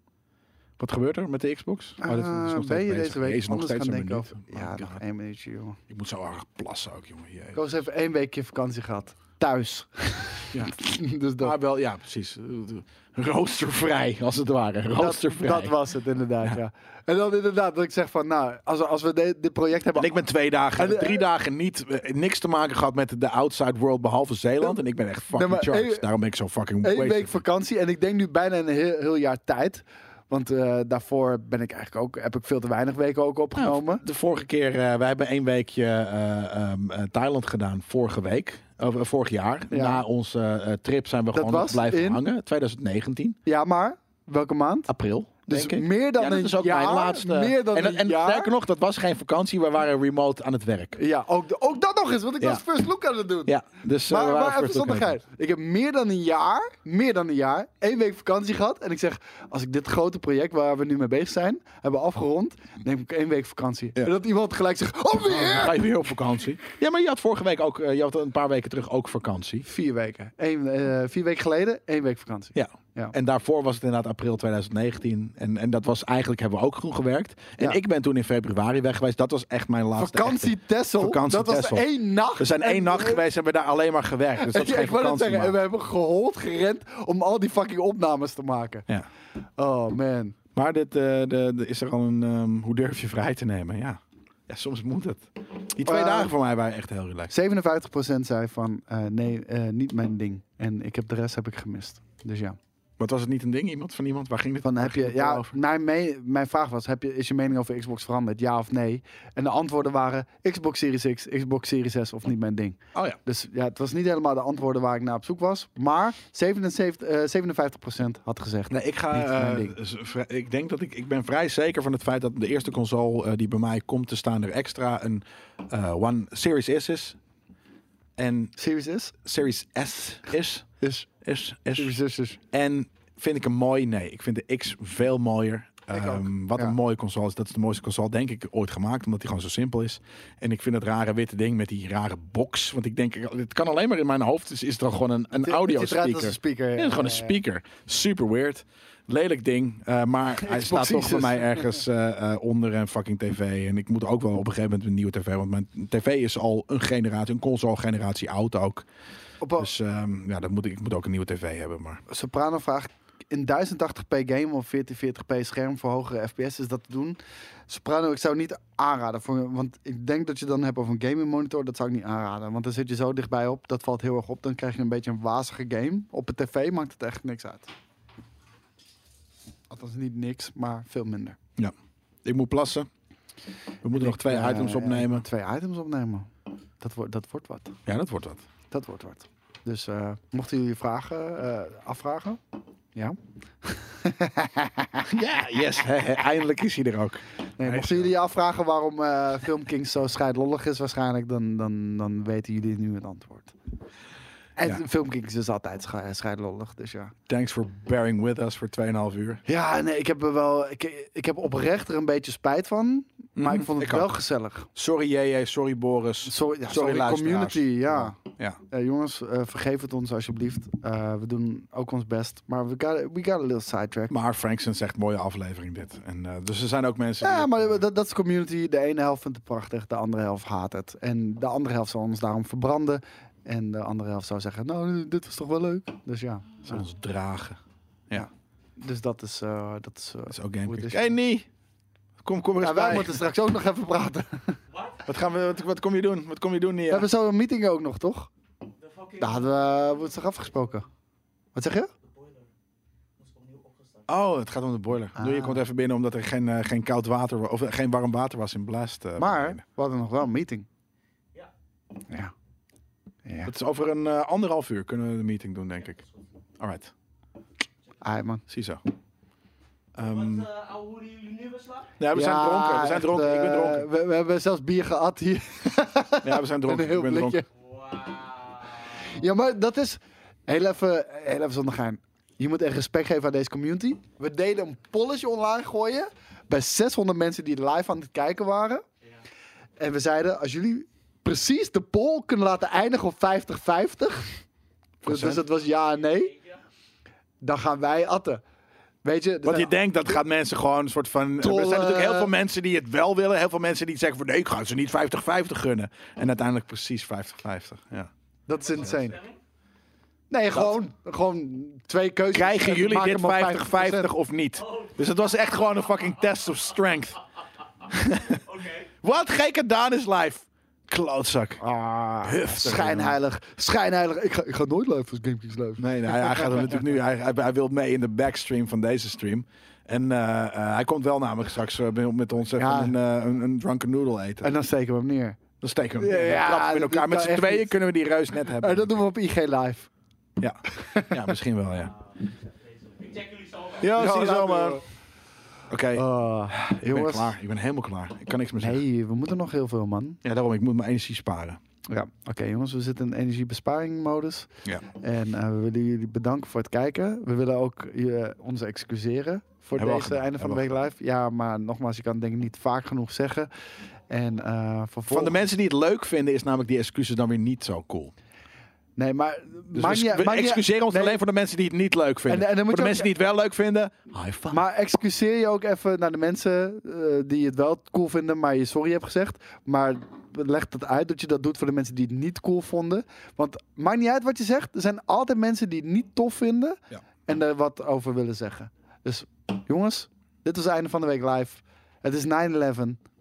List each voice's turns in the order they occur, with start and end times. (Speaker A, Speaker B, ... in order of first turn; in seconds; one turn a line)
Speaker A: 0.8-5.0
Speaker B: 2.0-5.8
Speaker A: 5.9-7.7
Speaker B: 7.5-11.5
Speaker A: 11.4-15.7
Speaker B: 14.9-20.2
Speaker A: 19.9-27.3
Speaker B: 20.8-21.2
Speaker B: 25.3-26.1
Speaker B: 26.8-34.0
Speaker A: 33.6-43.4
Speaker B: 39.7-40.0
Speaker B: 41.3-42.2
Speaker B: 43.5-44.9
Speaker A: 44.9-51.0
Speaker B: 45.5-48.5
Speaker B: 51.0-53.5
Speaker A: 53.5-55.1
Speaker B: 54.1-65.8
Speaker A: 65.2-69.7
Speaker B: 69.6-73.1
Speaker A: 72.5-85.6
Speaker B: 80.0-83.2
Speaker B: 84.4-88.9
Speaker B: 89.6-90.3
Speaker A: 90.5-97.3
Speaker B: 95.8-96.3
Speaker B: 97.3-102.6
Speaker A: 103.0-105.5
Speaker B: 104.6-119.8
Speaker A: 118.7-127.2
Speaker A: 128.2-128.6
Speaker B: 128.6-129.1
Speaker A: 129.2-132.0
Speaker B: 130.8-131.1
Speaker B: 131.8-132.4
Speaker A: 132.5-158.9
Speaker B: 135.9-136.7
Speaker B: 145.3-147.4
Speaker B: 150.4-151.8
Speaker B: 159.4-159.7
Speaker A: 159.6-162.0
Speaker B: 162.1-177.7
Speaker B: 179.7-181.4
Speaker A: 181.6-182.9
Speaker A: 183.8-185.2
Speaker B: 183.9-187.8
Speaker A: 187.8-188.4
Speaker B: 188.7-192.4
Speaker B: 192.9-195.1
Speaker A: 195.1-198.1
Speaker B: 197.6-203.6
Speaker B: 204.6-207.2
Speaker A: 207.3-209.4
Speaker B: 209.4-214.7
Speaker A: 213.4-214.2
Speaker A: 214.7-218.6
Speaker B: 216.2-218.2
Speaker B: 218.7-224.1
Speaker A: 224.1-227.8
Speaker B: 227.2-236.8
Speaker A: 236.6-238.3
Speaker B: 238.1-241.2
Speaker A: 240.3-241.5
Speaker A: 242.2-243.2
Speaker B: 242.6-244.6
Speaker C: 244.7-245.0
Speaker A: 245.1-247.1
Speaker B: 246.9-248.3
Speaker C: 248.8-250.8
Speaker B: 249.2-250.8
Speaker B: 251.6-251.9
Speaker C: 252.0-252.5
Speaker C: 253.2-254.1
Speaker A: 254.1-259.6
Speaker B: 255.2-255.6
Speaker B: 259.2-260.6
Speaker B: 263.2-263.5
Speaker A: 263.4-266.0
Speaker C: 265.8-266.1
Speaker A: 266.6-266.9
Speaker B: 268.0-268.4
Speaker A: 268.5-268.8
Speaker A: 269.9-270.5
Speaker C: 270.0-271.9
Speaker A: 272.0-273.9
Speaker B: 272.1-277.4
Speaker A: 276.2-277.4
Speaker C: 277.6-279.2
Speaker B: 278.8-288.8
Speaker B: 289.8-294.4
Speaker A: 295.0-295.4
Speaker B: 295.1-296.3
Speaker B: 297.4-298.4
Speaker B: 299.0-299.8
Speaker A: 299.4-308.1
Speaker B: 301.4-302.3
Speaker B: 308.5-309.2
Speaker C: 308.5-309.4
Speaker B: 310.3-314.1
Speaker A: 312.3-317.2
Speaker C: 314.6-316.6
Speaker A: 317.9-321.6
Speaker C: 318.3-318.9
Speaker B: 321.6-326.8
Speaker A: 322.2-323.2
Speaker A: 325.8-334.6
Speaker B: 332.6-333.0
Speaker B: 334.4-335.4
Speaker A: 335.6-339.0
Speaker B: 336.0-337.7
Speaker B: 338.5-339.9
Speaker A: 340.4-341.9
Speaker B: 340.7-341.3
Speaker C: 341.9-343.9
Speaker A: 343.8-344.8
Speaker B: 343.8-344.8
Speaker A: 345.7-348.8
Speaker B: 345.9-347.3
Speaker B: 348.6-350.2
Speaker A: 350.2-351.6
Speaker B: 351.9-363.5
Speaker A: 359.8-360.7
Speaker B: 364.1-365.4
Speaker A: 365.1-368.1
Speaker B: 368.9-371.2
Speaker A: 369.7-374.6
Speaker B: 372.3-373.1
Speaker B: 374.5-393.0